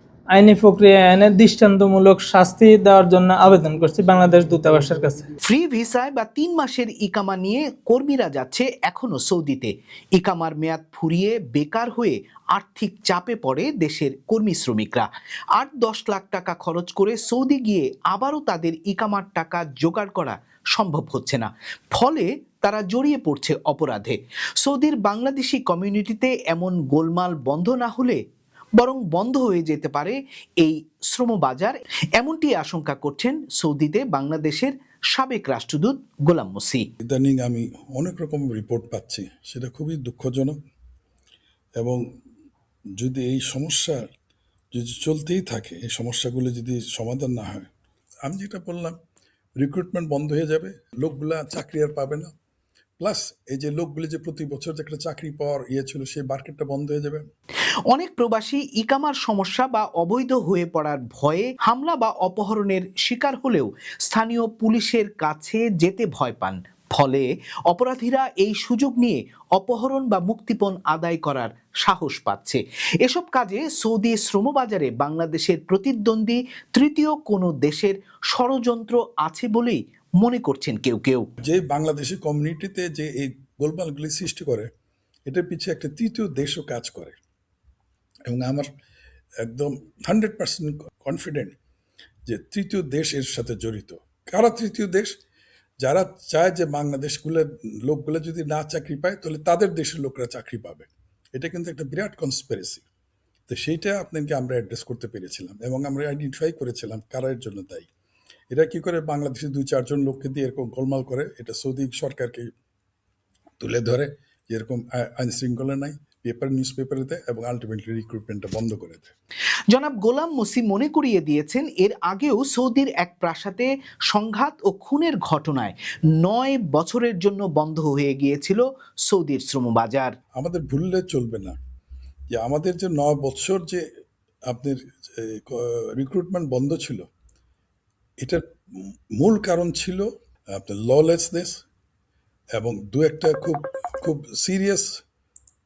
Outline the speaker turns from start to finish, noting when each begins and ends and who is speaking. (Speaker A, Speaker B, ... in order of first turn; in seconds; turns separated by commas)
Speaker A: 0.3-5.3, Speaker B: 5.4-28.2, Speaker B: 28.8-36.9, Speaker C: 37.0-40.6, Speaker C: 43.0-44.1, Speaker C: 44.7-47.7, Speaker C: 48.2-49.0, Speaker C: 49.6-52.3, Speaker C: 53.0-57.2, Speaker B: 57.9-81.3, Speaker C: 81.5-84.7, Speaker C: 85.3-87.2, Speaker C: 88.3-88.7, Speaker C: 89.4-91.5, Speaker C: 92.3-95.1, Speaker C: 95.8-102.8, Speaker C: 103.5-107.9, Speaker C: 108.5-112.5, Speaker C: 113.6-119.1, Speaker B: 119.7-130.1, Speaker C: 130.4-131.6, Speaker C: 132.3-133.8, Speaker C: 134.5-137.1, Speaker C: 138.2-141.6, Speaker C: 142.6-144.9